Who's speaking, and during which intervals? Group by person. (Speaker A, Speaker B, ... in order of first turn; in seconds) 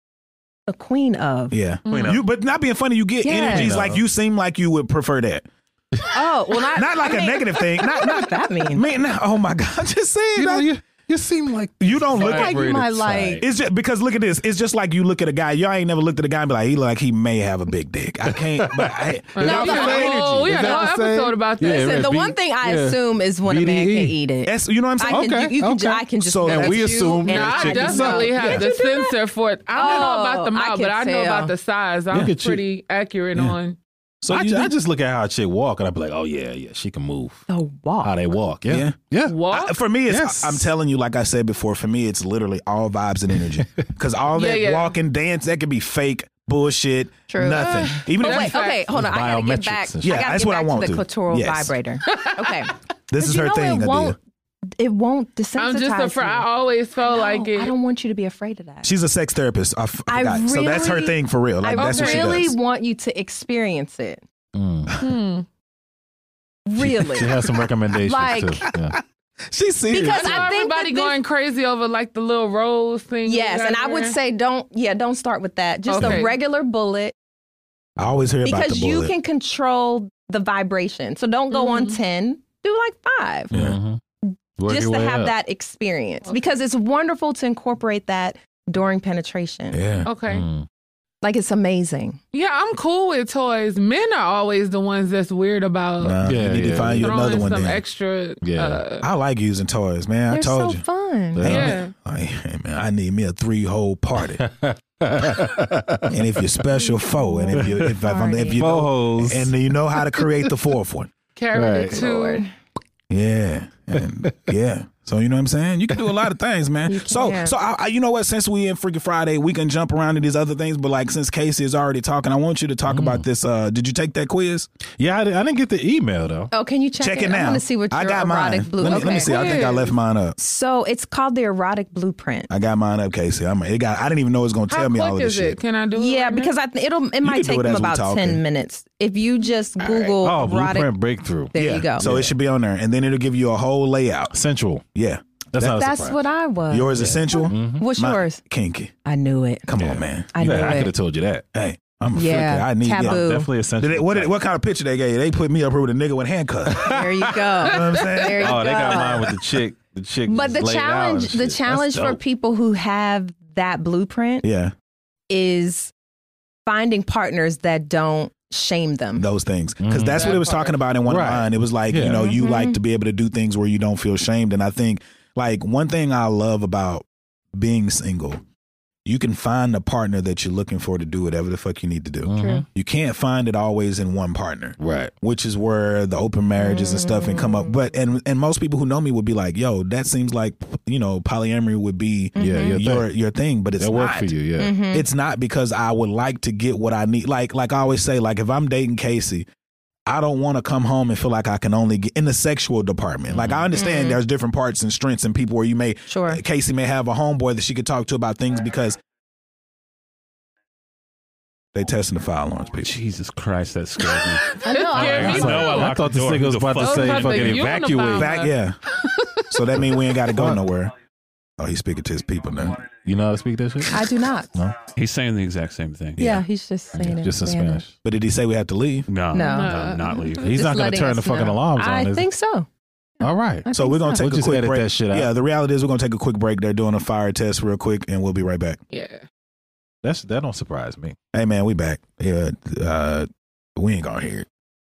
Speaker A: 0.7-1.6, 3.2-3.7, 6.1-8.8, 12.2-13.4, 19.5-20.9, 21.6-29.1, 29.7-31.5, 37.5-38.1, 47.3-54.2, 54.8-56.5, 57.0-58.9, 60.1-64.2, 66.7-67.4, 68.0-68.6, 69.9-71.2, 73.2-77.1, 78.4-83.5, 84.3-89.8, 91.2-92.2, 100.3-101.5, 107.2-108.9, 111.9-112.5, 116.9-117.5, 126.5-129.3, 130.4-132.5, 136.0-140.9, 141.5-142.0, 145.6-148.4, 149.1-149.7, 150.3-150.9, 152.2-153.5, 156.8-159.4, 160.3-164.5, 165.3-165.9, 166.7-169.3, 172.1-172.8, 182.4-182.6, 186.6-187.7, 192.4-192.8, 194.6-195.1, 203.8-204.2, 206.1-206.4, 214.6-215.8, 223.9-224.5, 226.2-227.8, 229.3-229.8, 230.4-232.7, 233.7-234.2
Speaker B: 1.5-5.5, 6.7-10.7, 11.8-12.7, 13.4-20.5, 24.5-25.6, 26.2-27.2, 34.2-34.7, 38.7-39.0, 39.5-48.5, 50.0-51.7, 53.1-54.2, 58.8-62.6, 64.9-65.1, 66.8-67.2, 68.8-70.5, 76.0-76.3, 78.0-79.1, 83.5-83.8, 89.7-90.1, 96.0-97.8, 99.0-100.8, 101.4-104.4, 106.1-111.1, 113.1-124.7, 127.0-130.4, 132.5-135.6, 137.2-138.4, 141.6-144.3, 144.9-145.8, 146.7-148.9, 149.7-150.9, 151.5-153.2, 153.8-157.1, 157.6-159.2, 164.4-164.7, 169.2-178.4, 179.1-194.3, 194.9-199.5, 200.1-209.0, 211.7-213.0, 218.1-218.8, 219.5-220.9, 221.6-222.8, 226.2-226.4, 228.0-229.1, 233.7-238.8, 241.3-244.5
Speaker C: 1.9-2.2, 19.4-22.1, 27.2-33.8, 39.2-39.8, 44.4-45.0, 47.5-48.9, 52.1-52.7, 55.6-57.7, 61.8-62.4, 65.0-65.5, 70.1-74.2, 75.9-76.3, 81.5-82.0, 90.0-90.5, 92.3-96.2, 97.0-99.1, 101.5-101.9, 111.4-112.5, 128.9-129.9, 134.7-136.5, 170.1-170.8, 214.1-216.0, 216.8-219.4, 229.4-230.5, 238.9-239.2
Speaker D: 1.9-2.2, 3.4-4.0, 10.4-13.5, 18.3-24.2, 25.1-28.6, 32.1-32.6, 34.3-37.5, 38.0-39.4, 40.1-40.7, 48.9-50.1, 64.5-64.9, 67.1-69.0, 83.5-84.0, 84.6-85.3, 90.3-90.7, 96.2-97.5, 98.4-98.8, 101.4-101.8, 104.4-106.2, 107.5-107.9, 108.5-109.5, 111.5-112.0, 114.0-114.3, 122.9-123.3, 125.0-126.5, 139.8-142.3, 144.3-144.8, 145.5-146.2, 146.9-147.8, 149.8-151.5, 153.0-154.3, 156.7-157.5, 158.3-162.2, 169.8-170.3, 171.1-172.3, 182.2-182.7, 184.8-185.1, 192.4-193.1, 193.8-194.7, 203.3-203.7, 215.2-218.3, 220.3-220.6, 222.6-224.8, 226.9-227.9, 229.7-232.3, 233.2-235.3, 240.0-241.2
Speaker E: 212.8-217.7, 224.9-226.2, 229.1-230.7